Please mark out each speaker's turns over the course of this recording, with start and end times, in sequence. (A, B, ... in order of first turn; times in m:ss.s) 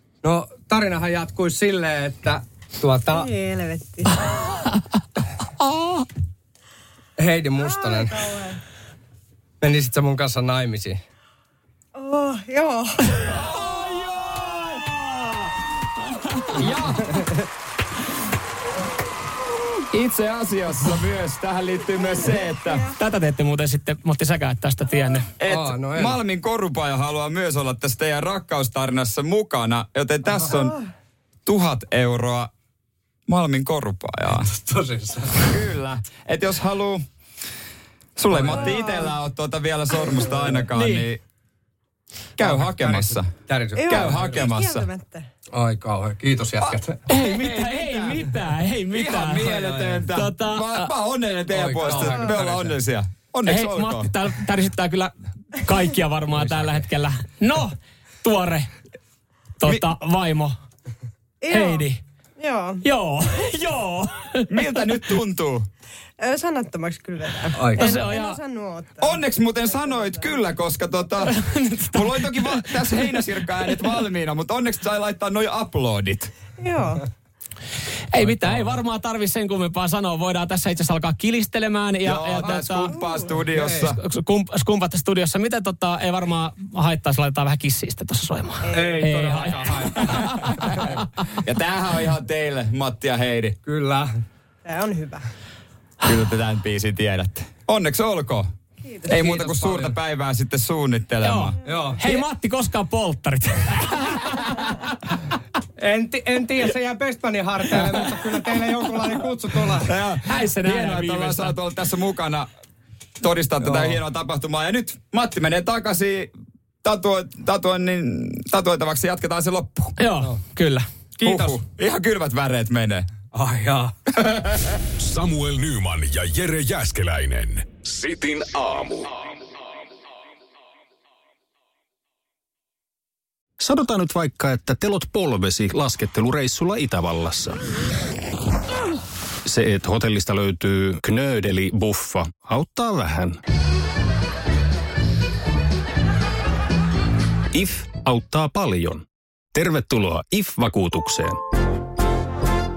0:00.2-0:03.3 A
0:03.1-0:04.2 B
0:05.6-0:06.1 C
0:07.2-0:08.3 A
0:07.6-0:08.6 B
0:09.6-0:11.0 A
0:12.0-0:12.9 B
0:13.2-0:16.6 C
0:16.5-0:17.4 D
0:16.6-0:17.3 A
0:19.9-0:22.9 D
0:22.9-0:25.3 C
0:25.4-0:30.8 D
0:25.5-0:26.2 A
0:31.5-0:32.5 D
0:33.3-0:34.5 D
0:34.4-0:35.6 A
0:35.4-0:37.0 D
0:38.2-0:41.2 D
0:38.3-0:38.8 A
0:38.5-0:39.1 B
0:40.2-0:40.6 A
0:40.7-0:41.1 C
0:42.4-0:43.3 D
0:42.4-0:44.4 A
0:43.8-0:45.2 B
0:43.9-0:44.9 D
0:45.5-0:47.0 A
0:47.1-0:48.4 D
0:47.1-0:50.9 C
0:48.9-0:54.1 D
0:49.4-0:50.0 A
0:51.5-0:52.8 A
0:53.5-0:58.7 C
0:59.6-1:00.6 C
1:01.4-1:01.8 B
1:01.5-1:02.0 C
1:02.4-1:02.8 B
1:02.8-1:04.5 C
1:04.5-1:05.7 D
1:06.2-1:10.4 B
1:07.6-1:08.0 A
1:07.8-1:08.4 C
1:09.0-1:11.4 D
1:11.3-1:13.2 C
1:11.9-1:16.3 D
1:16.6-1:17.0 B
1:18.1-1:23.0 C
1:22.0-1:24.0 D
1:22.4-1:23.4 B
1:23.5-1:23.9 A
1:23.8-1:31.0 C
1:28.7-1:31.0 A
1:31.4-1:33.6 D
1:33.7-1:34.1 A
1:34.6-1:35.2 B
1:36.0-1:38.5 D
1:39.1-1:41.6 D
1:39.1-1:40.0 A
1:41.2-1:45.0 C
1:41.6-1:42.2 A
1:45.8-1:50.0 A
1:49.8-1:52.5 D
1:50.2-1:51.6 C
1:53.2-1:56.3 D
1:53.6-1:54.0 A
1:56.8-2:00.0 D
2:00.0-2:00.8 C
2:01.2-2:01.6 A
2:01.2-2:03.1 D
2:03.3-2:03.9 A
2:04.1-2:04.8 D
2:05.0-2:09.2 E
2:13.6-2:17.6 F
2:19.4-2:23.4 F
2:27.5-2:31.4 F